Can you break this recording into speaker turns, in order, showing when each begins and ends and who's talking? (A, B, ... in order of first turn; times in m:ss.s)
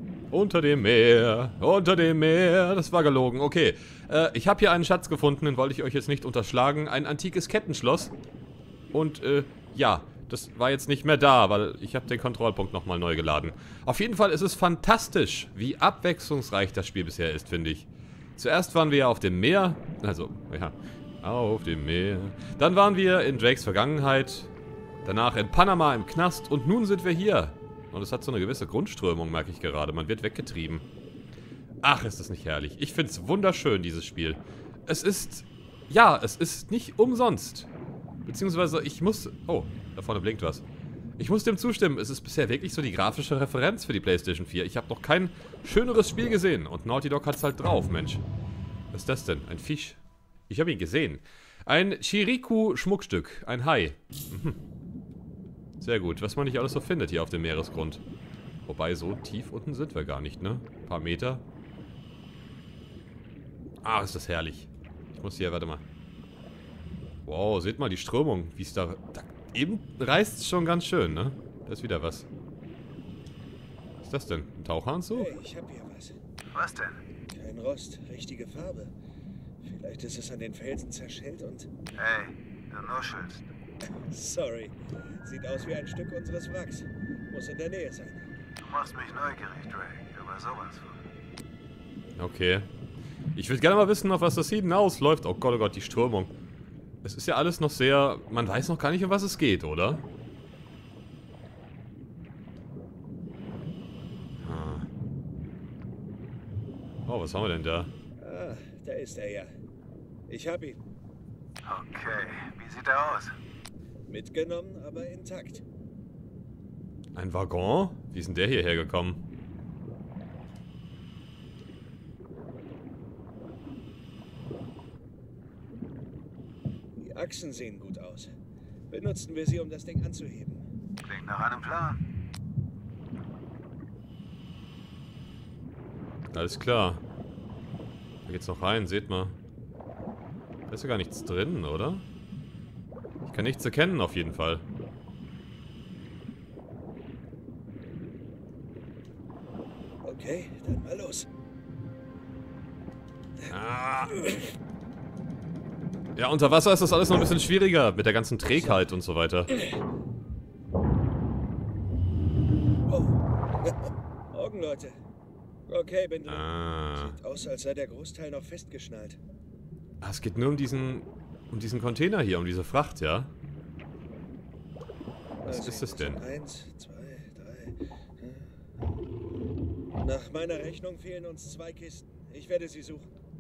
0:00.3-0:08.1 A
0:08.9-0:24.5 A
0:25.0-0:30.8 A
0:31.8-0:37.7 A
0:38.3-0:40.6 A
0:41.2-0:48.2 A
0:48.9-0:54.6 A
0:55.8-0:58.0 A
0:58.7-1:01.4 A
1:03.8-1:05.8 A
1:07.3-1:12.3 A
1:14.0-1:15.3 A
1:15.1-1:16.2 B
1:16.5-1:17.0 C
1:17.3-1:18.9 B
1:19.6-1:21.7 B
1:22.0-1:23.4 C
1:24.1-1:28.2 B
1:28.6-1:31.0 C
1:32.2-1:32.7 A
1:33.4-1:36.3 A
1:37.0-1:40.0 A
1:44.4-1:44.9 A
1:47.1-1:47.9 A
1:48.2-1:49.5 B
1:50.3-1:50.8 B
1:51.6-1:53.3 C
1:54.1-1:55.6 B
1:57.2-1:59.2 A
2:07.0-2:08.3 B
2:08.9-2:10.6 B
2:11.0-2:12.0 C
2:16.3-2:17.0 A
2:18.3-2:19.4 A
2:20.7-2:22.0 A
2:23.3-2:24.7 A
2:30.0-2:31.3 B
2:33.5-2:34.4 A
2:36.2-2:39.5 A
2:42.9-2:45.0 B
2:45.7-2:49.2 B
2:46.3-2:47.2 A
2:50.0-2:53.3 A
2:55.4-2:58.5 B
2:55.5-2:56.2 A
3:00.0-3:03.1 B